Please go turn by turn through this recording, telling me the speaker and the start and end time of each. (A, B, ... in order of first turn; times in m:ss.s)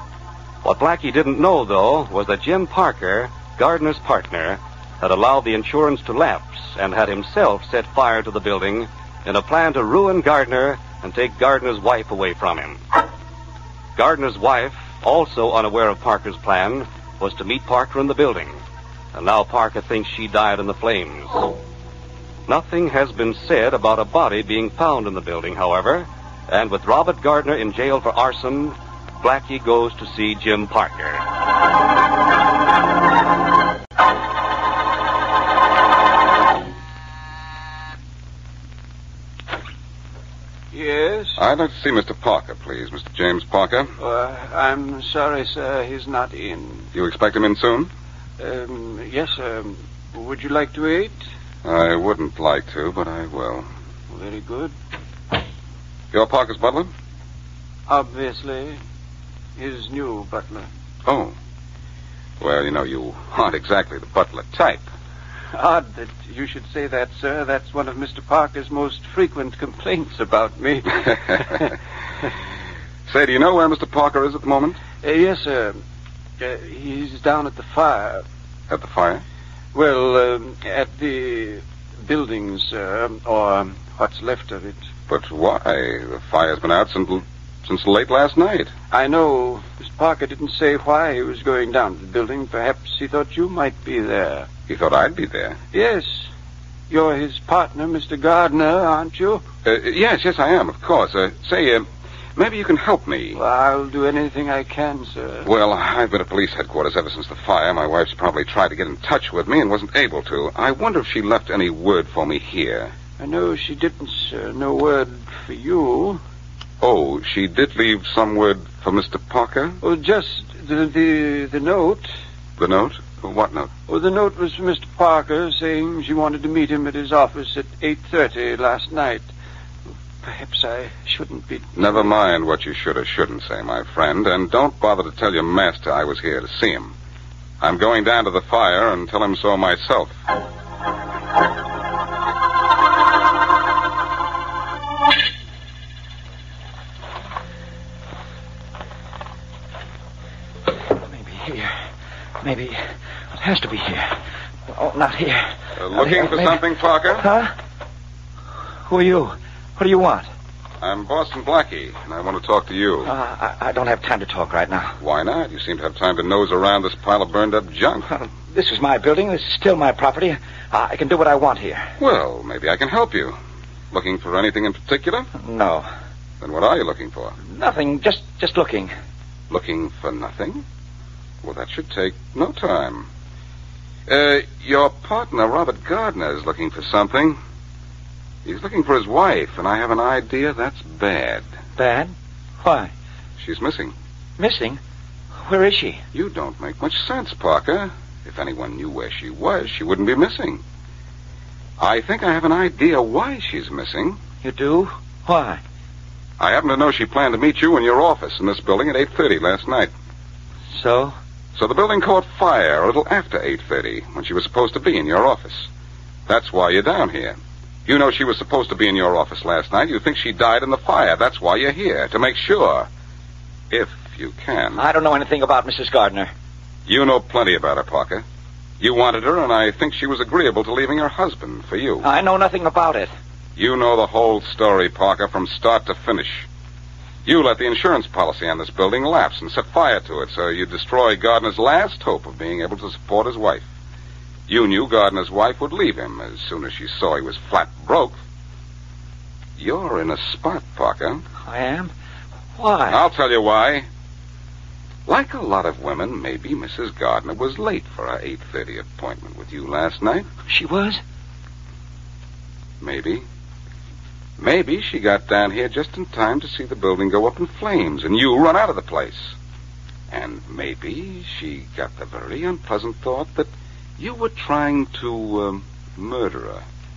0:00.6-0:12.8 A
0:14.0-0:18.6 A
0:19.1-0:21.5 A
0:22.5-0:31.2 A
0:40.7-0:41.4 B
0:41.4-0:43.9 C
0:44.0-0:46.9 B
0:46.9-0:47.9 C
0:48.4-0:51.2 B
0:51.6-0:53.7 C
0:54.1-0:54.7 B
0:56.1-0:56.9 C
0:57.9-0:58.8 B
0:59.6-1:00.7 B
1:01.0-1:01.3 C
1:02.4-1:04.9 C
1:05.5-1:11.7 B
1:11.0-1:11.6 C
1:13.1-1:14.8 C
1:15.0-1:15.8 B
1:16.4-1:18.2 B
1:18.7-1:19.2 C
1:19.7-1:24.8 B
1:25.1-1:28.7 C
1:28.9-1:34.5 B
1:34.7-1:35.6 C
1:35.7-1:36.3 B
1:36.9-1:39.4 B
1:39.6-1:43.4 C
1:43.3-1:45.5 B
1:45.4-1:52.9 C
1:53.2-1:56.2 B
1:56.8-1:59.8 C
1:59.8-2:02.1 B
2:02.6-2:03.7 C
2:03.9-2:09.3 B
2:10.2-2:12.1 B
2:11.7-2:16.9 C
2:17.6-2:20.2 C
2:30.8-2:31.8 D
2:32.4-2:36.6 D
2:35.8-2:37.2 C
2:37.1-2:37.5 D
2:38.8-2:40.3 D
2:40.8-2:43.1 C
2:43.0-2:45.0 D
2:45.0-2:48.1 C
2:48.1-2:51.9 D
2:52.0-2:53.4 C
2:53.9-2:55.3 C
2:55.3-2:55.9 D
2:56.4-2:57.4 C
2:57.4-2:58.9 D
2:59.5-3:00.6 C
3:01.4-3:03.1 C
3:04.1-3:07.4 C
3:08.4-3:11.5 C
3:11.8-3:12.9 D
3:13.4-3:13.9 C
3:14.4-3:14.8 D
3:15.4-3:16.0 D
3:16.1-3:20.6 C
3:21.8-3:24.2 C
3:24.4-3:25.6 D
3:26.4-3:29.9 C
3:30.7-3:31.1 D
3:31.5-3:35.7 C
3:36.3-3:42.9 C
3:43.7-3:44.8 C
3:44.7-3:46.3 D
3:46.9-3:48.2 C
3:48.8-3:52.0 C
3:52.0-3:53.1 D
3:53.6-3:56.5 C
3:57.2-4:03.7 C
4:04.5-4:08.2 C
4:09.6-4:11.2 C
4:11.4-4:11.9 D
4:12.6-4:13.0 D
4:12.9-4:13.9 C
4:15.1-4:20.3 C
4:20.5-4:21.0 D
4:22.8-4:23.2 C
4:24.4-4:29.3 C
4:30.1-4:36.6 C